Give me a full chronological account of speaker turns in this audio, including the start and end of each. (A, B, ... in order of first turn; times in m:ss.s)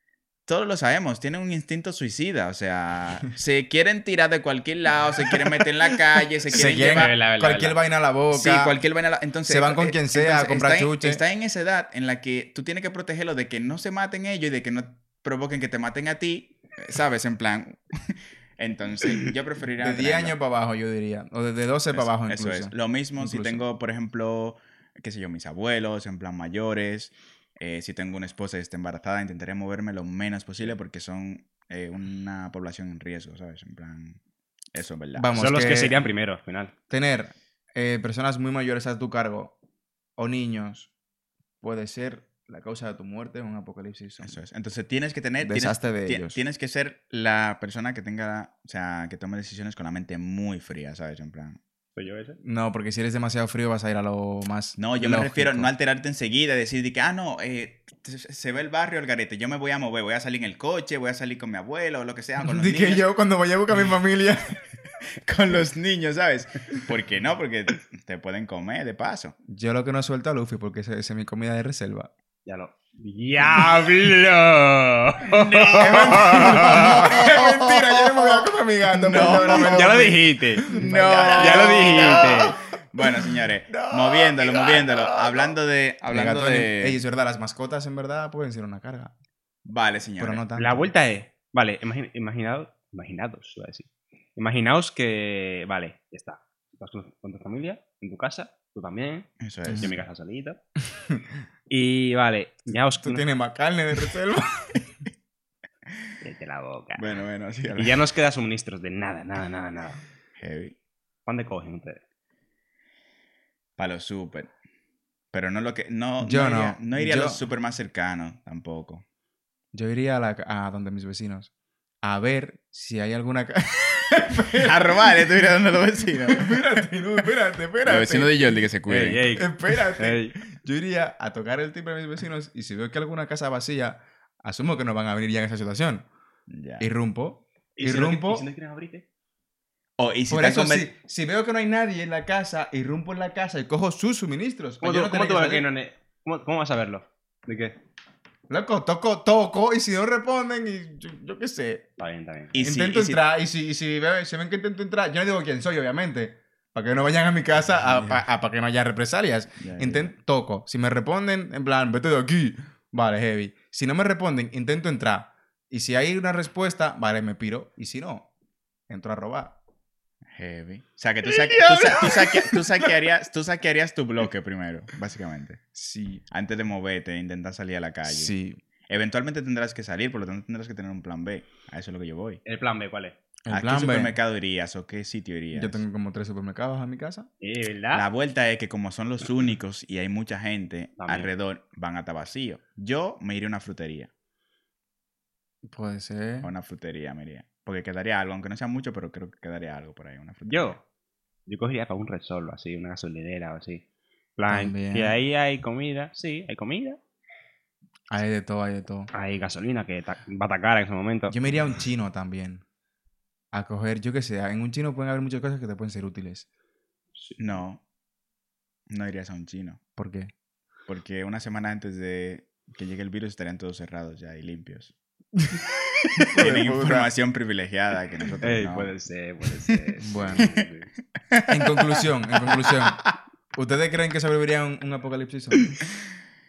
0:00.5-0:07.2 A
0:05.3-0:05.6 B
0:06.5-0:08.8 B
0:06.5-0:07.8 C
0:08.3-0:20.4 A
0:09.5-0:11.2 B
0:19.8-0:23.6 B
0:21.9-0:34.2 A
0:34.7-0:35.3 A
0:35.2-0:35.9 B
0:35.4-0:36.7 C
0:36.9-0:39.5 B
0:40.2-0:40.9 B
0:41.6-0:44.4 B
0:44.2-0:51.6 A
0:45.4-0:46.4 B
0:52.0-0:52.4 C
0:52.4-0:55.7 B
0:54.8-1:03.0 A
1:02.4-1:04.6 B
1:05.2-1:09.4 A
1:09.5-1:12.1 B
1:12.5-1:17.3 C
1:15.3-1:18.5 A
1:15.7-1:25.5 B
1:19.0-1:20.1 A
1:19.2-1:22.6 C
1:20.7-1:27.0 A
1:26.1-1:29.1 B
1:29.6-1:30.5 A
1:30.2-1:30.9 B
1:30.6-1:40.6 C
1:39.4-1:40.0 A
1:41.7-1:43.2 C
1:43.0-1:44.8 B
1:46.2-1:47.2 C
1:47.0-1:48.1 A
1:47.8-1:50.0 C
1:50.4-1:50.8 A
1:51.3-1:52.0 C
1:53.8-1:54.5 A
1:55.3-1:59.0 A
1:56.2-1:57.4 B
1:59.7-2:01.5 B
2:02.0-2:05.5 B
2:04.5-2:06.9 A
2:06.2-2:08.6 B
2:07.8-2:10.0 A
2:08.9-2:10.4 C
2:09.3-2:16.1 B
2:16.5-2:16.9 A
2:16.8-2:18.5 B
2:17.8-2:19.1 C
2:20.0-2:20.9 A
2:20.3-2:25.7 B
2:24.8-2:27.8 C
2:28.5-2:31.9 B
2:32.0-2:32.6 C
2:32.5-2:33.2 A
2:32.6-2:48.3 B
2:37.7-2:38.2 A
2:39.6-2:40.1 A
2:48.9-2:49.6 B
2:50.4-2:55.6 A
2:51.2-2:53.0 B
2:55.7-2:56.2 B
2:56.3-2:58.4 A
2:58.0-2:58.6 B
2:58.9-3:02.4 A
3:02.4-3:03.2 C
3:03.5-3:04.2 B
3:03.5-3:05.8 A
3:05.5-3:07.3 B
3:07.4-3:08.1 C
3:07.9-3:14.1 A
3:11.0-3:11.3 C
3:15.6-3:16.5 B
3:16.4-3:20.8 A
3:20.5-3:20.8 C
3:21.5-3:23.8 C
3:24.4-3:27.0 C
3:24.5-3:25.2 B
3:28.1-3:29.1 B
3:29.1-3:31.5 C
3:31.3-3:32.6 B
3:33.5-3:36.5 B
3:37.2-3:37.6 C
3:37.4-3:37.8 A
3:38.9-3:39.8 A
3:40.0-3:40.3 B
3:40.9-3:44.9 A
3:45.4-3:45.6 B
3:46.2-3:47.1 B
3:46.2-3:48.9 A
3:48.4-3:50.9 C
3:50.0-3:50.5 B
3:50.4-3:50.6 A
3:51.3-3:53.0 A
3:51.5-3:53.0 B
3:53.6-3:55.8 B